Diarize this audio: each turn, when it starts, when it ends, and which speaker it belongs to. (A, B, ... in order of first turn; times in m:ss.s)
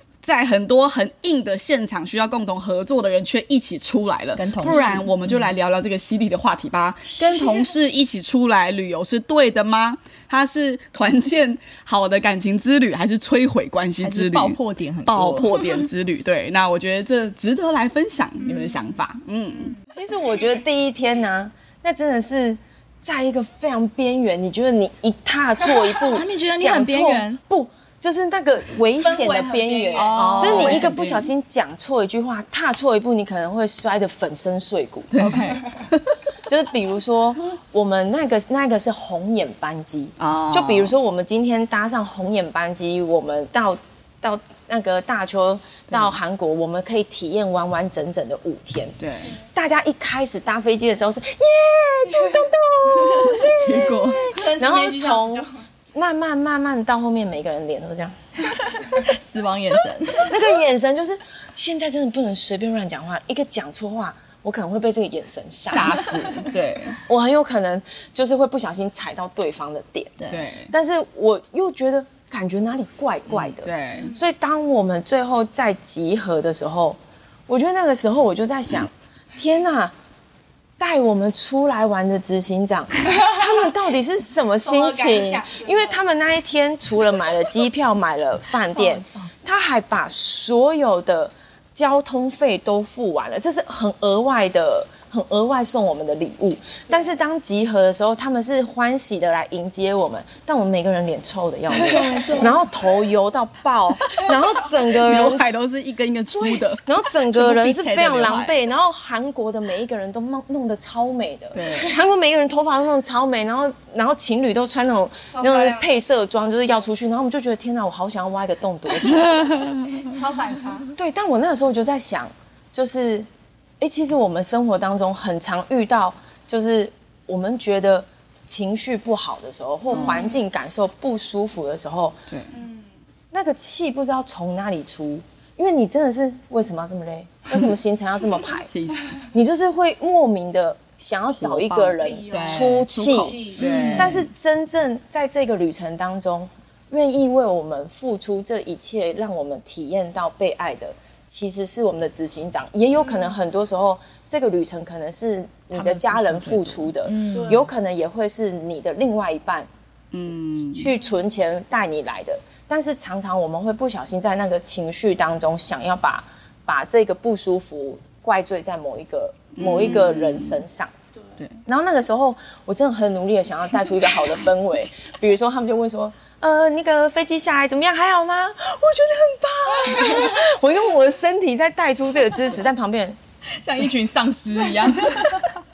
0:00.2-0:19.8 A
0:04.4-0:05.2 B
0:14.0-0:15.7 B
0:19.9-0:35.1 C
0:26.0-0:27.4 B
0:29.0-0:30.3 D
0:29.9-0:31.3 B
0:30.0-0:30.9 A
0:35.1-0:35.6 B
0:36.5-0:48.9 C
0:40.2-0:40.9 A
0:49.0-0:49.4 A
0:49.4-0:58.1 C
0:53.4-0:54.3 A
0:54.1-0:54.6 B
0:54.5-0:55.4 D
0:58.6-1:00.4 B
1:00.2-1:06.4 C
1:05.7-1:07.0 A
1:07.0-1:10.1 C
1:10.2-1:10.4 B
1:10.3-1:10.7 A
1:10.7-1:19.9 C
1:13.3-1:14.1 A
1:20.8-1:45.4 C
1:25.1-1:25.6 D
1:28.7-1:29.3 B
1:41.9-1:42.5 B
1:44.8-1:46.8 A
1:46.3-1:59.7 C
1:47.3-1:48.6 B
1:51.6-1:51.9 B
2:00.1-2:00.9 D
2:00.9-2:03.3 C
2:03.8-2:12.2 C
2:09.9-2:10.2 A
2:12.3-2:12.6 A
2:13.3-2:18.7 C
2:18.7-2:19.2 A
2:19.2-2:39.7 C
2:21.4-2:24.3 A
2:22.4-2:22.7 B
2:23.6-2:24.2 B
2:35.7-2:37.7 B
2:40.1-2:40.9 A
2:40.8-2:50.9 C
2:49.6-2:50.6 A
2:51.6-3:03.2 C
3:03.5-3:05.6 B